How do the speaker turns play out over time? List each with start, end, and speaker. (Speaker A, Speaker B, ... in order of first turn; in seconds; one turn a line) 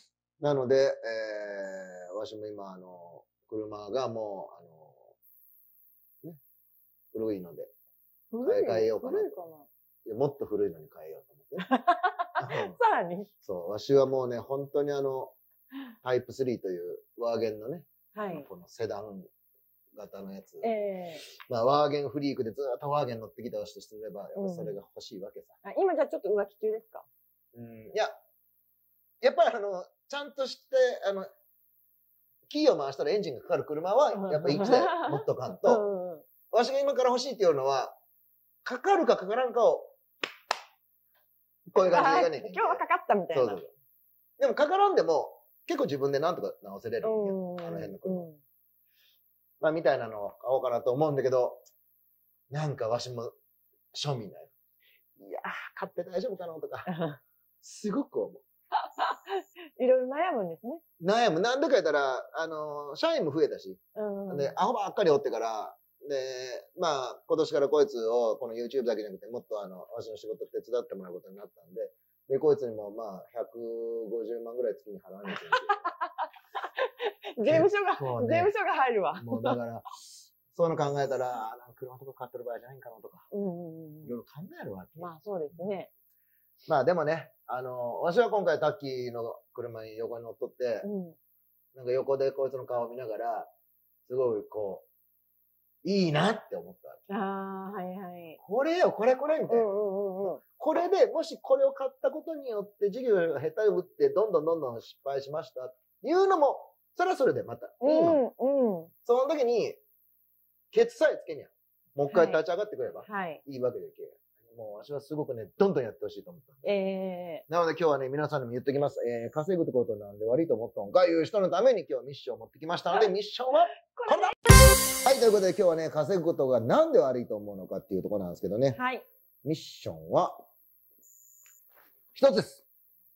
Speaker A: 0.4-5.1
Speaker A: 7.1-7.7
Speaker B: 8.3-9.7
Speaker A: 8.4-9.3
Speaker A: 10.0-11.7
Speaker B: 11.6-13.3
Speaker A: 12.4-12.8
Speaker A: 13.4-15.3
Speaker A: 16.0-19.3
Speaker B: 18.1-18.5
Speaker A: 19.9-20.7
Speaker B: 20.6-21.2
Speaker A: 21.2-25.6
Speaker B: 24.4-24.8
Speaker B: 25.6-27.1
Speaker A: 27.5-28.1
Speaker A: 29.2-31.3
Speaker A: 32.5-35.8
Speaker B: 34.1-36.2
Speaker A: 36.5-38.0
Speaker A: 38.6-39.9
Speaker A: 41.6-43.7
Speaker B: 41.8-43.6
Speaker A: 44.4-48.3
Speaker B: 47.0-48.4
Speaker A: 49.6-51.6
Speaker A: 52.5-53.3
Speaker A: 53.9-54.5
Speaker A: 55.2-56.9
Speaker B: 56.9-57.2
Speaker A: 57.6-58.4
Speaker B: 58.8-60.8
Speaker A: 61.0-75.9
Speaker B: 64.0-64.5
Speaker B: 75.3-79.6
Speaker A: 77.4-78.5
Speaker A: 79.2-83.3
Speaker B: 83.3-84.1
Speaker A: 84.0-85.7
Speaker B: 85.0-85.9
Speaker A: 86.7-90.9
Speaker B: 90.8-91.2
Speaker A: 91.7-93.5
Speaker A: 94.1-94.8
Speaker A: 95.8-97.1
Speaker B: 97.1-98.4
Speaker A: 98.4-99.7
Speaker B: 99.5-100.4
Speaker A: 100.2-108.2
Speaker B: 107.8-108.9
Speaker A: 109.0-109.8
Speaker A: 110.7-116.7
Speaker B: 112.1-112.4
Speaker B: 113.0-113.4
Speaker B: 116.6-117.4
Speaker A: 117.5-124.4
Speaker B: 123.8-124.4
Speaker A: 124.9-128.8
Speaker B: 128.7-129.0
Speaker A: 129.4-130.4
Speaker A: 132.1-132.6